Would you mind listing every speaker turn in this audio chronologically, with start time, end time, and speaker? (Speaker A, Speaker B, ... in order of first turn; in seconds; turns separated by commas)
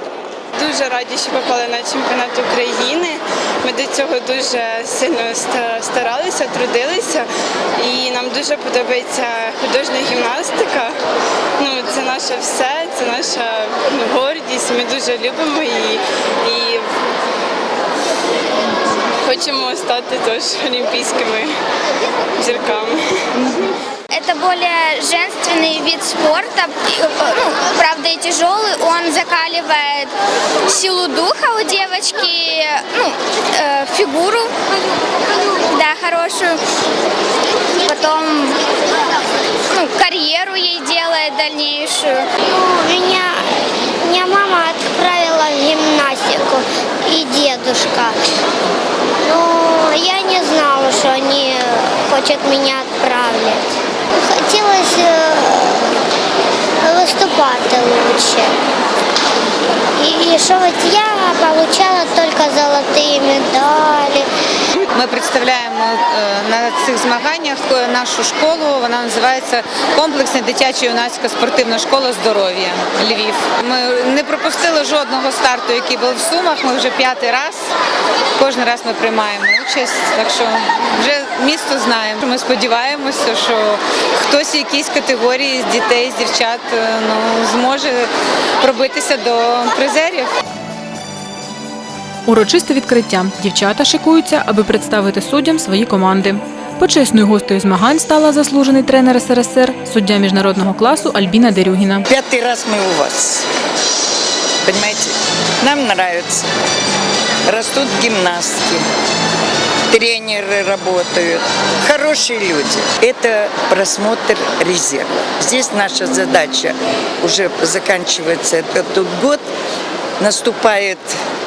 Speaker A: 0.6-7.3, Speaker A: 7.8-10.9, Speaker A: 11.6-16.8, Speaker A: 19.2-21.5, Speaker A: 22.4-23.0, Speaker B: 24.1-30.1, Speaker B: 30.7-34.5, Speaker B: 35.6-36.6, Speaker B: 37.8-38.6, Speaker B: 39.7-42.2, Speaker C: 42.4-48.1, Speaker C: 49.2-53.6, Speaker C: 54.2-56.0, Speaker C: 56.8-58.5, Speaker C: 60.0-64.3, Speaker D: 64.9-77.6, Speaker D: 78.4-88.1, Speaker D: 88.6-90.3, Speaker E: 92.3-102.0, Speaker F: 102.1-103.5, Speaker F: 104.6-106.5, Speaker F: 107.5-108.8, Speaker F: 109.9-119.4, Speaker F: 120.2-121.1